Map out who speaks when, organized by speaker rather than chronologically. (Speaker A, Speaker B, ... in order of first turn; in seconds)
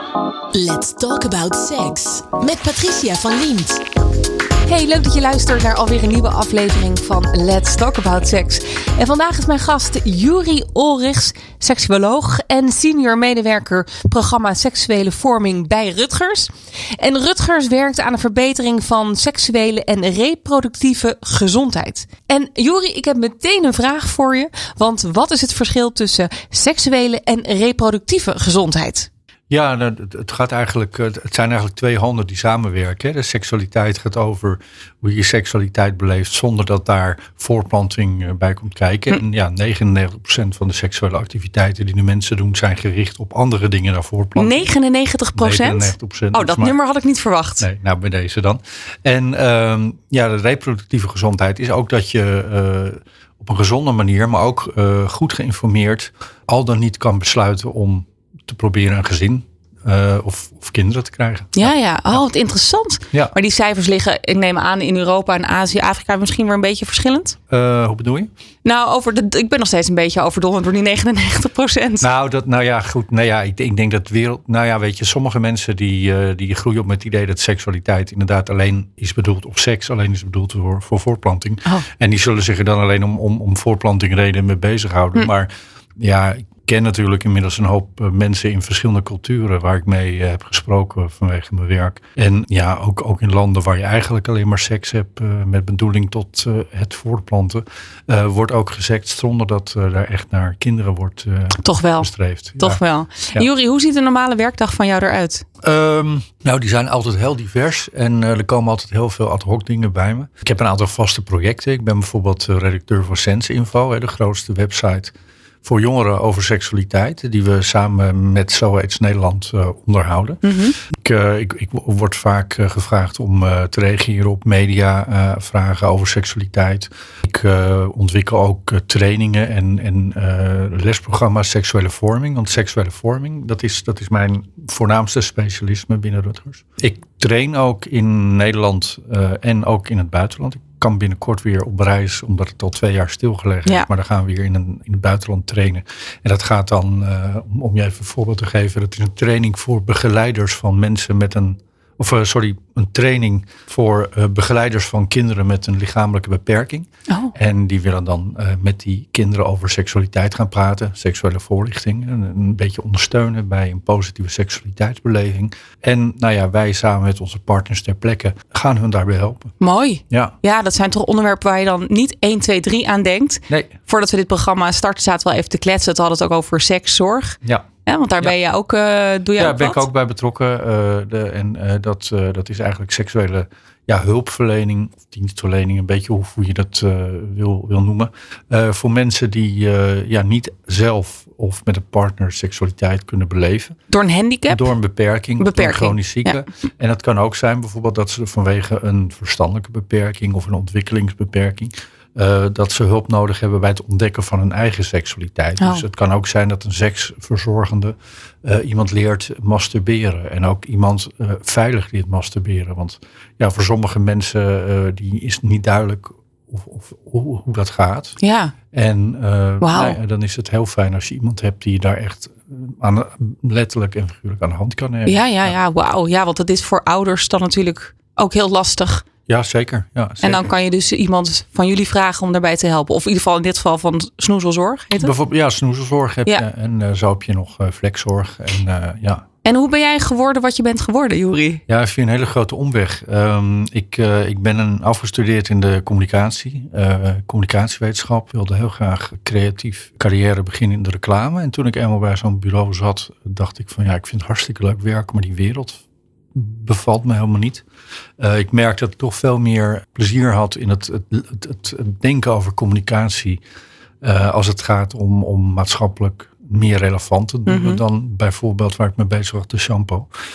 Speaker A: 0.5-3.9
Speaker B: 4.7-29.1, 44.4-47.7, 61.5-67.4, 68.6-72.1, 101.6-105.4, 120.4-120.8, 157.1-157.3, 169.6-179.8, 193.9-194.7, 195.4-196.4, 218.2-218.5, 219.6-220.0, 225.1-229.1, 230.2-235.1, 239.4-241.6, 267.4-267.8
Speaker C: 29.5-44.6, 45.3-46.8, 47.6-62.2, 67.5-68.3, 72.0-102.8, 105.6-169.5, 170.1-170.3, 179.4-193.7, 194.5-218.2, 218.7-225.5, 229.3-230.5, 234.9-239.2, 241.7-255.8, 256.3-257.6, 258.2-263.4, 264.0-270.1